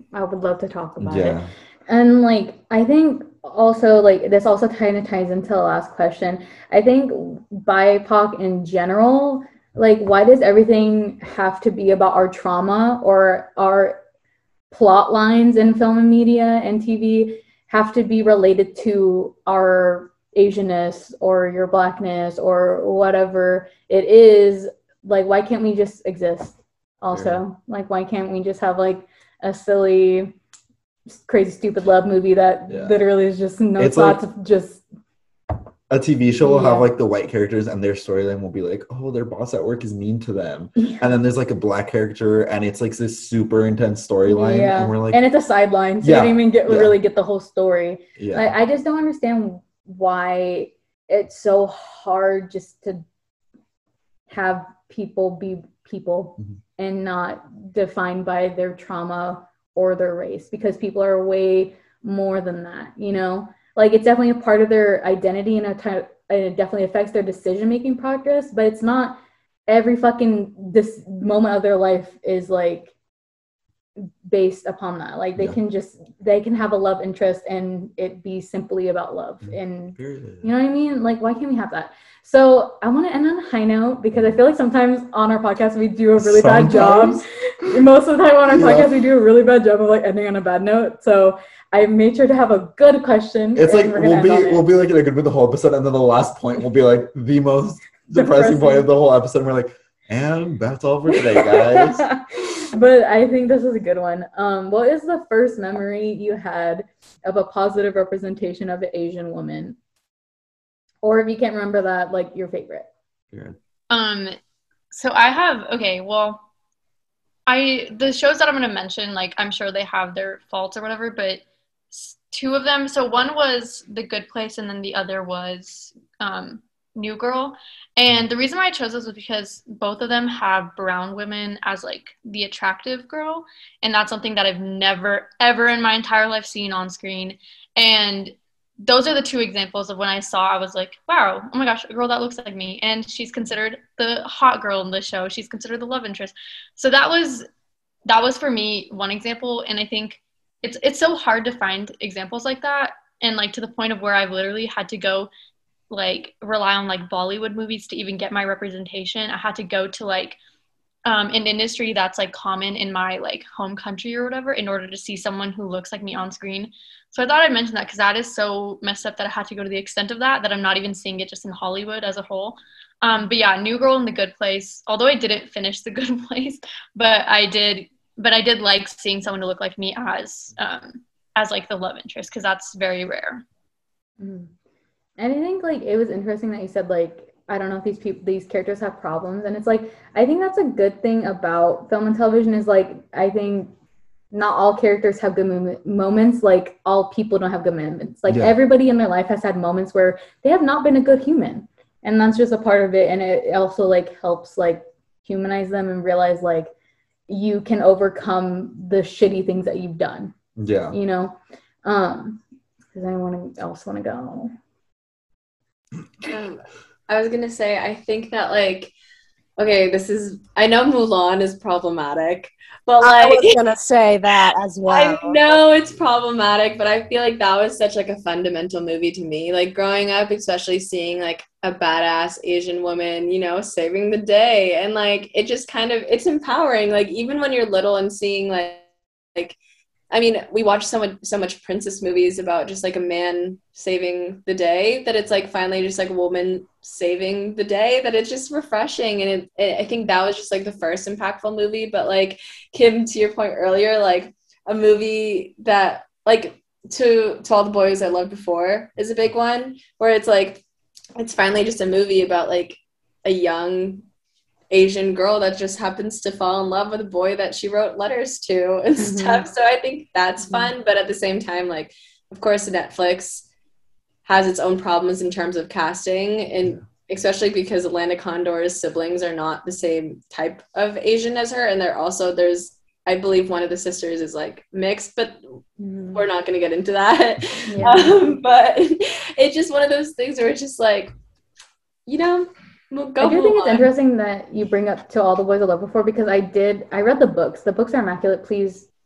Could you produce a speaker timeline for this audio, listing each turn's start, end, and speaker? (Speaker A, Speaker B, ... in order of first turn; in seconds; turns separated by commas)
Speaker A: 0.1-14.0, Speaker B: 1.0-1.5, Speaker A: 14.7-30.4, Speaker B: 27.1-27.4, Speaker A: 31.1-34.8, Speaker B: 32.7-33.0, Speaker B: 33.8-34.2, Speaker B: 35.9-45.2, Speaker A: 36.4-36.9, Speaker A: 40.8-41.0, Speaker A: 44.2-53.0, Speaker B: 46.0-47.0, Speaker B: 48.2-48.5, Speaker A: 54.3-72.9, Speaker A: 74.2-94.7, Speaker B: 79.4-80.5, Speaker B: 86.2-87.8, Speaker B: 88.5-88.9, Speaker B: 93.5-102.1, Speaker A: 98.1-98.9, Speaker A: 101.1-109.8, Speaker A: 111.0-112.9, Speaker C: 113.9-114.3, Speaker C: 114.9-116.4, Speaker C: 117.5-147.4, Speaker C: 148.1-155.3, Speaker C: 155.9-160.4, Speaker C: 161.0-183.4, Speaker A: 184.2-184.5, Speaker A: 185.2-193.7, Speaker A: 194.3-206.7, Speaker B: 198.3-198.6, Speaker A: 207.3-210.3, Speaker B: 210.6-211.0, Speaker A: 210.9-212.4, Speaker A: 212.9-214.5, Speaker D: 216.2-218.9, Speaker D: 219.6-223.6, Speaker E: 223.0-225.4, Speaker D: 224.9-239.6, Speaker D: 240.1-260.6, Speaker D: 261.1-264.0, Speaker D: 264.7-273.4, Speaker A: 268.9-269.5, Speaker A: 270.4-270.7, Speaker D: 274.2-285.4, Speaker A: 285.8-286.2, Speaker D: 286.1-291.1, Speaker A: 287.6-288.3, Speaker D: 292.1-293.9, Speaker A: 293.2-298.9